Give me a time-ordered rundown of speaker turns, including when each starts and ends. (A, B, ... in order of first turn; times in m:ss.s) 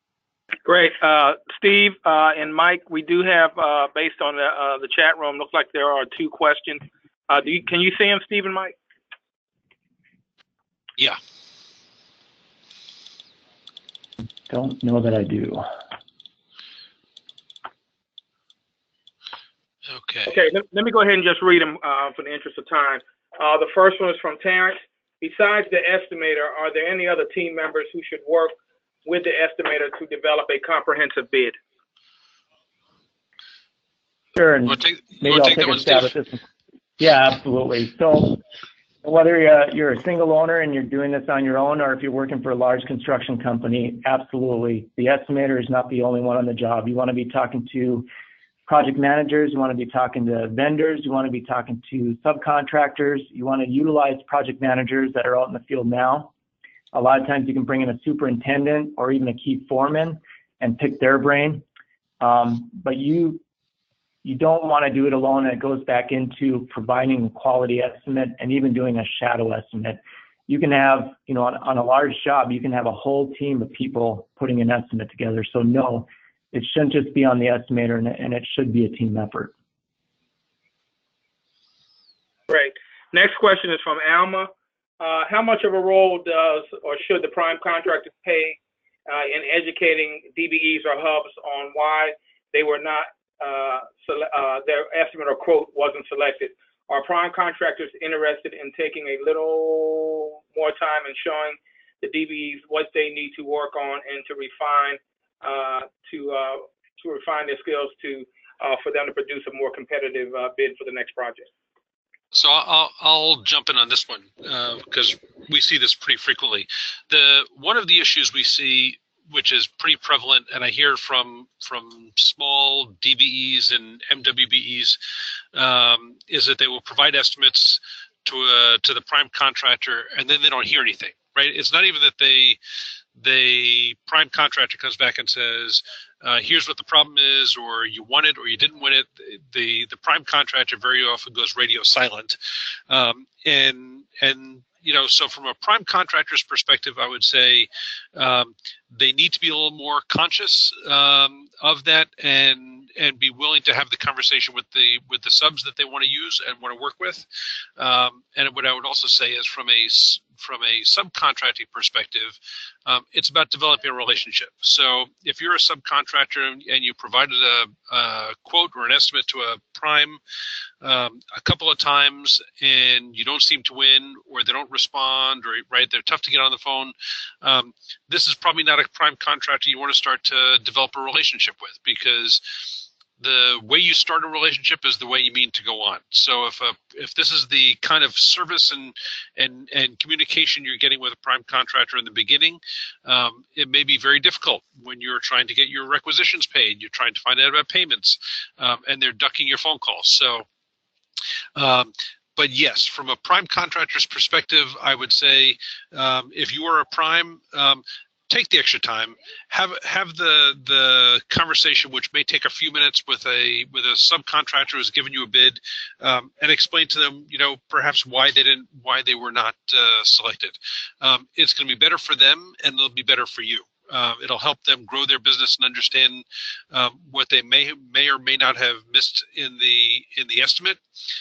0:00.6-0:08.7 A
0:14.5-0:15.6 B
0:19.8-0:20.3 C
0:20.3-0:31.6 A
0:34.4-0:36.4 B
0:34.7-0:36.1 C
0:37.0-0:38.4 B
0:39.0-0:48.1 B
0:48.7-0:56.3 B
0:56.9-1:01.6 B
1:02.2-1:03.4 B
1:04.2-1:19.5 B
1:22.5-1:51.5 A
1:52.3-2:05.0 C
2:05.5-2:12.6 C
2:13.2-2:22.4 C
2:22.9-2:37.2 C
2:37.8-2:50.2 C
2:50.8-3:20.4 C
3:21.6-3:50.8 C